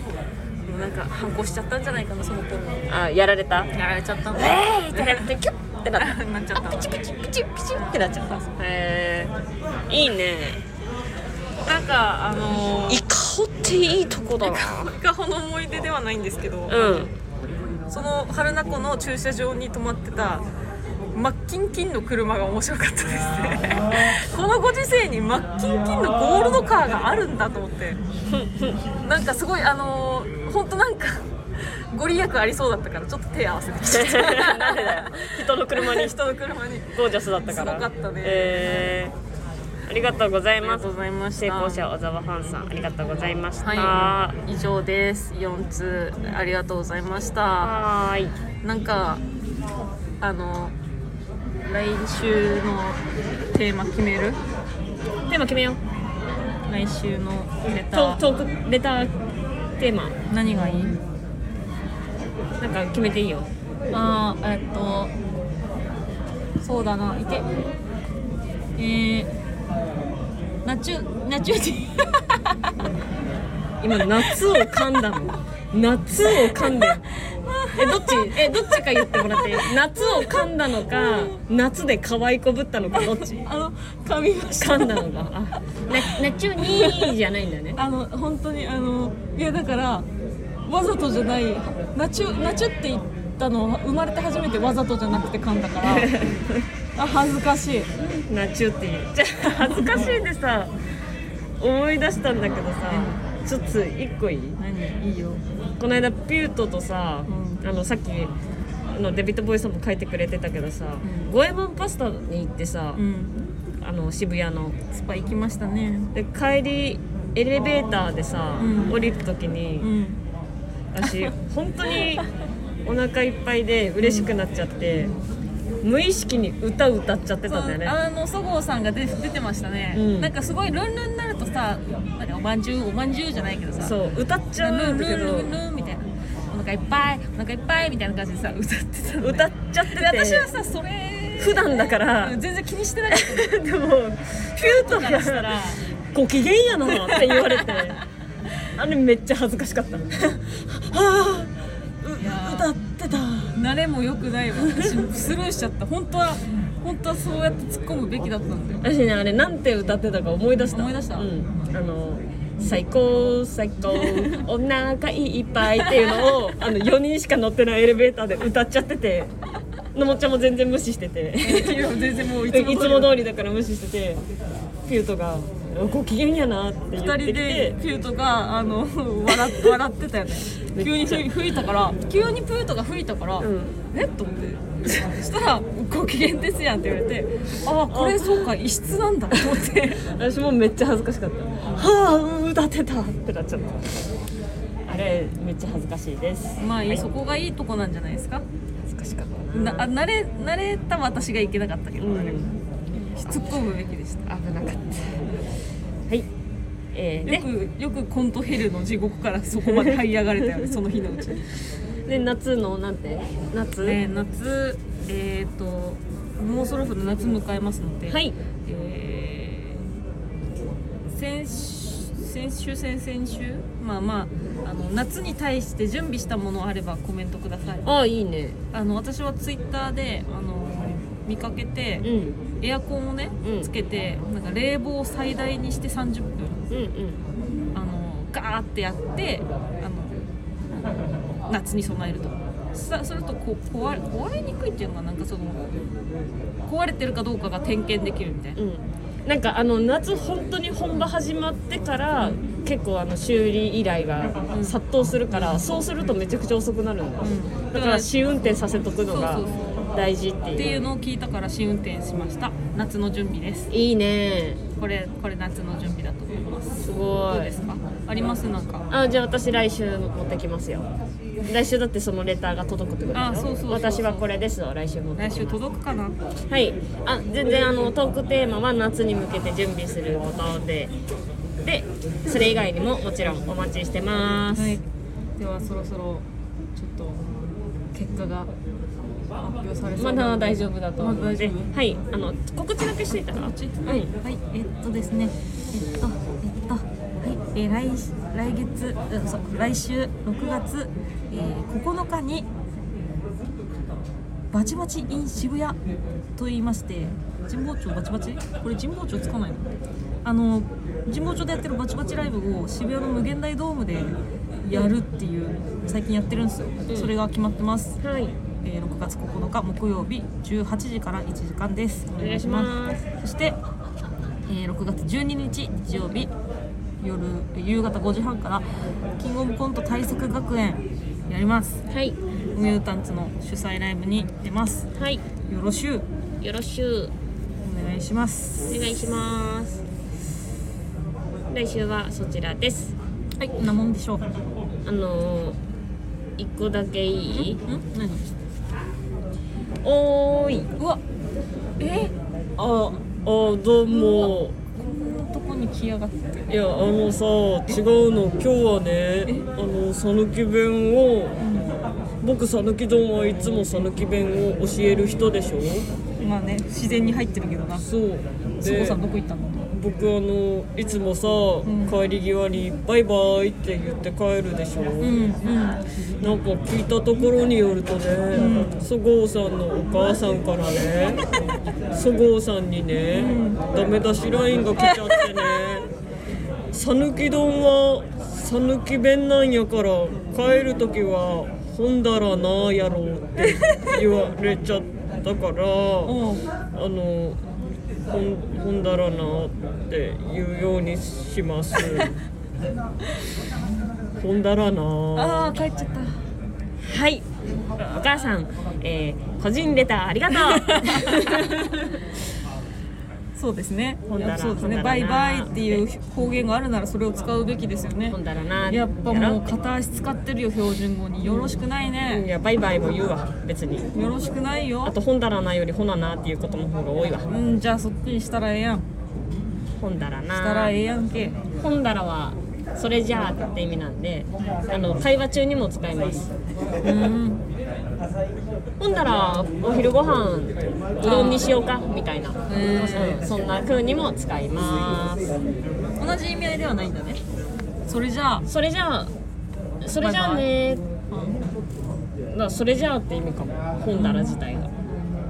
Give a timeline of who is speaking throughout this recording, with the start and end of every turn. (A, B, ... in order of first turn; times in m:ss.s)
0:00.6-0:02.9 A
0:02.9-0:03.7 B
0:03.7-0:05.3 A
0:04.3-0:09.3 B
0:06.0-0:07.0 A
0:07.7-0:08.6 A
0:09.9-0:10.6 B
0:11.6-0:13.0 A
0:12.9-0:15.0 B
0:14.4-0:17.1 A
0:16.7-0:17.1 B
0:17.9-0:20.4 A
0:21.1-0:28.0 A
0:28.3-0:28.8 B
0:28.9-0:38.9 A
0:33.8-0:36.1 B
0:36.9-0:39.1 B
0:39.9-0:44.4 B
0:40.6-0:41.9 A
0:43.6-0:47.7 A
0:47.6-0:48.4 B
0:48.6-0:49.2 A
0:50.2-0:50.7 A
0:51.6-0:54.4 A
0:55.3-0:55.8 B
0:56.7-0:58.2 A
0:57.9-0:59.2 B
0:59.8-1:00.2 B
1:00.3-1:01.0 A
1:02.6-1:03.5 B
1:03.9-1:05.1 A
1:06.6-1:07.5 A
1:08.8-1:09.3 A
1:10.6-1:12.7 A
1:13.8-1:17.0 B
1:14.0-1:15.2 A
1:16.2-1:21.4 A
1:17.7-1:23.4 B
1:22.9-1:25.1 A
1:24.6-1:27.8 B
1:25.9-1:27.2 A
1:27.8-1:30.1 A
1:30.6-1:36.1 A
1:35.8-1:36.6 B
1:37.0-1:37.9 A
1:38.1-1:40.7 B
1:39.6-1:40.2 A
1:41.6-1:44.6 B
1:42.9-1:43.2 A
1:44.6-1:45.4 A
1:45.8-1:48.3 B
1:47.3-1:47.6 A
1:48.9-1:53.0 B
1:51.0-1:51.3 A
1:53.0-1:53.4 A
1:53.8-1:54.8 B
1:54.9-1:56.1 A
1:56.1-1:59.9 B
1:58.6-1:59.0 A
1:59.8-2:00.2 A
2:00.9-2:02.3 B
2:01.0-2:01.3 A
2:01.9-2:02.2 A
2:02.8-2:05.1 B
2:04.0-2:04.3 A
2:05.8-2:07.9 B
2:07.4-2:14.0 A
2:09.9-2:10.3 B
2:13.8-2:15.5 B
2:14.6-2:23.5 A
2:19.2-2:20.5 B
2:21.4-2:22.4 B
2:23.1-2:25.6 B
2:24.6-2:25.8 A
2:26.1-2:28.0 B
2:26.8-2:28.0 A
2:28.7-2:31.5 B
2:32.0-2:33.5 B
2:32.2-2:32.7 A
2:33.5-2:38.8 A
2:34.6-2:35.0 B
2:38.8-2:49.3 B
2:40.7-2:41.3 A
2:43.9-2:44.4 A
2:45.6-2:46.5 A
2:49.9-2:51.9 B
2:51.4-2:53.2 A
2:52.4-2:54.2 B
2:54.8-2:57.8 B
2:57.0-3:10.0 A
3:00.7-3:01.3 B
3:03.4-3:03.7 B
3:07.9-3:08.5 B
3:10.0-3:14.1 B
3:14.9-3:17.0 B
3:16.6-3:18.4 A
3:18.8-3:19.9 B
3:19.5-3:24.3 A
3:22.0-3:22.5 B
3:24.3-3:25.3 B
3:26.9-3:27.5 B
3:27.2-3:31.5 A
3:29.6-3:30.0 B
3:32.0-3:34.0 B
3:33.8-3:39.8 A
3:38.1-3:38.4 B
3:41.1-3:47.9 A
3:47.8-3:48.6 B
3:48.7-3:52.0 A
3:52.0-3:52.4 B
3:52.6-3:56.6 A
3:53.4-3:53.7 B
3:56.7-3:57.2 B
3:57.7-4:00.3 A
4:01.5-4:05.8 A
4:06.6-4:08.6 A
4:08.6-4:20.8 B
4:14.5-4:14.8 A
4:15.3-4:15.8 A
4:17.2-4:19.6 A
4:20.6-4:23.7 A
4:23.7-4:24.6 B
4:24.8-4:28.8 A
4:26.7-4:27.5 B
4:28.9-4:30.9 B
4:31.4-4:35.6 B
4:33.1-4:34.2 A
4:35.2-4:36.2 A
4:36.5-4:40.9 B
4:37.4-4:38.0 A
4:41.6-4:44.8 B
4:44.5-4:44.8 A
4:45.4-4:46.2 A
4:46.8-4:47.3 A
4:47.9-4:48.5 A
4:49.4-4:51.7 A
4:50.0-4:54.1 B
4:53.1-5:02.5 A
5:04.5-5:05.8 A
5:06.4-5:09.7 A
5:10.2-5:18.0 A
5:18.0-5:18.3 B
5:18.6-5:23.6 A
5:22.2-5:23.0 B
5:24.4-5:26.3 A
5:27.0-5:28.6 A
5:29.2-5:31.8 A
5:31.9-5:32.2 B
5:32.5-5:34.9 A
5:35.0-5:35.2 B
5:35.5-5:36.0 A
5:36.4-5:37.1 B
5:37.6-5:38.8 A
5:38.7-5:39.8 B
5:41.5-5:42.9 B
5:43.4-5:44.2 A
5:44.8-5:45.6 B
5:46.4-5:47.6 B
5:47.3-5:48.2 A
5:49.8-5:50.7 B
5:50.8-5:51.0 A
5:51.8-5:52.1 A
5:52.6-5:54.5 B
5:53.9-5:56.6 A
5:56.5-6:01.4 B
6:01.4-6:01.7 A
6:02.2-6:05.9 B
6:06.2-6:07.8 A
6:07.8-6:09.0 B
6:08.6-6:09.7 A
6:09.7-6:15.2 B
6:11.6-6:12.0 A
6:15.0-6:15.8 A
6:16.2-6:21.2 B
6:18.3-6:18.8 A
6:21.9-6:25.9 B
6:23.1-6:23.6 A
6:24.8-6:25.8 A
6:26.7-6:36.2 B
6:33.4-6:34.0 A
6:36.0-6:36.4 A
6:36.7-6:37.4 B
6:38.1-6:42.1 B
6:44.2-6:45.5 B
6:45.1-6:46.2 A
6:46.8-6:47.2 B
6:47.8-6:52.0 B
6:50.3-6:51.5 A
6:53.3-6:58.2 A
6:54.1-6:55.8 B
6:58.1-6:59.4 B
6:58.7-7:02.2 A
7:01.2-7:01.6 B
7:02.1-7:03.9 B
7:03.9-7:05.0 A
7:04.8-7:07.3 B
7:07.3-7:08.8 A
7:09.8-7:10.7 B
7:10.3-7:11.4 A
7:11.6-7:16.3 B
7:16.8-7:17.4 A
7:18.8-7:25.3 B
7:21.0-7:21.5 A
7:22.5-7:23.3 A
7:26.0-7:27.2 A
7:27.9-7:28.4 A
7:28.4-7:29.1 B
7:29.8-7:30.8 B
7:30.0-7:30.5 A
7:31.1-7:31.4 A
7:32.3-7:34.7 B
7:33.9-7:34.4 A